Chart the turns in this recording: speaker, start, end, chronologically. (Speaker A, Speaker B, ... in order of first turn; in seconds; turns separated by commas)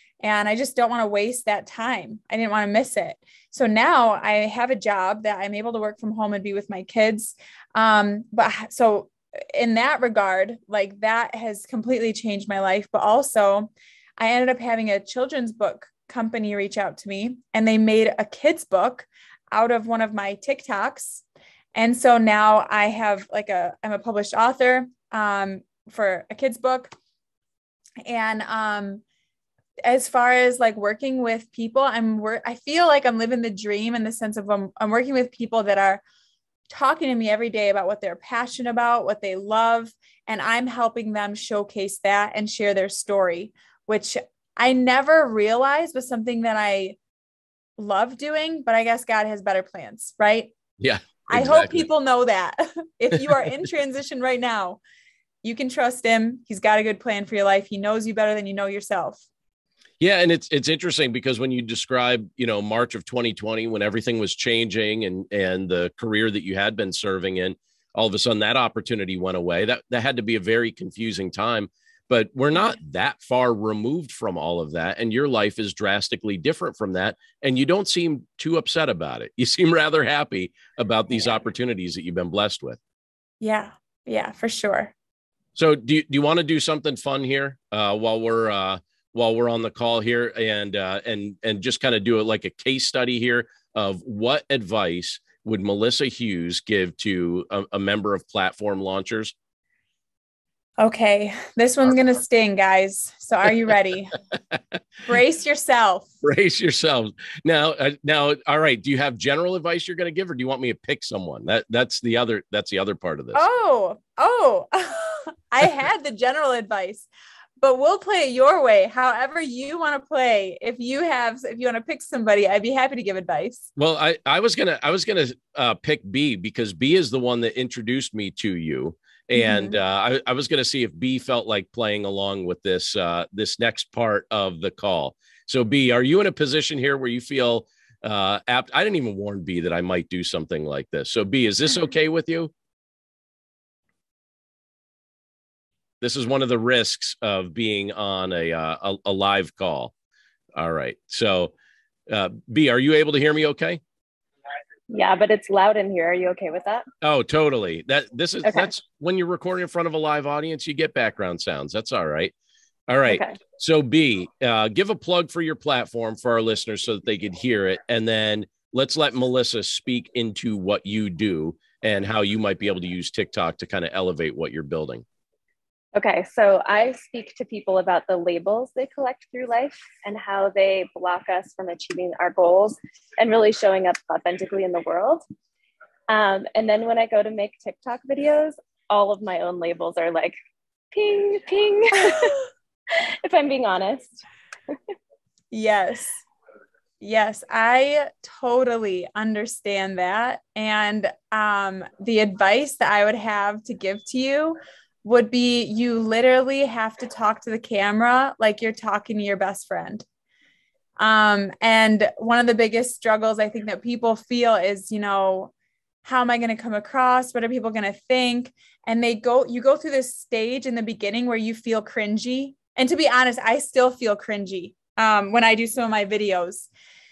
Speaker A: 0.2-21.2, Speaker A: 21.7-26.9, Speaker A: 28.1-29.0, Speaker A: 29.8-36.0, Speaker A: 36.7-47.0, Speaker A: 47.8-50.5, Speaker B: 50.8-51.8, Speaker A: 51.3-54.8, Speaker A: 55.4-59.2, Speaker B: 60.0-82.8, Speaker A: 83.4-84.9, Speaker B: 85.5-99.3, Speaker A: 100.8-104.1, Speaker A: 105.0-106.1, Speaker B: 106.2-113.4, Speaker A: 113.3-123.7, Speaker B: 123.8-142.5, Speaker A: 129.3-129.8, Speaker B: 146.0-149.9, Speaker B: 150.6-151.5, Speaker B: 152.1-153.8, Speaker C: 154.9-156.8, Speaker B: 157.0-162.3, Speaker C: 158.4-158.7, Speaker B: 162.9-175.0, Speaker C: 163.1-163.4, Speaker C: 175.9-185.2, Speaker C: 186.1-190.3, Speaker C: 190.9-192.4, Speaker C: 192.9-194.8, Speaker A: 195.5-196.2, Speaker A: 197.0-210.1, Speaker A: 211.0-215.5, Speaker A: 216.0-226.7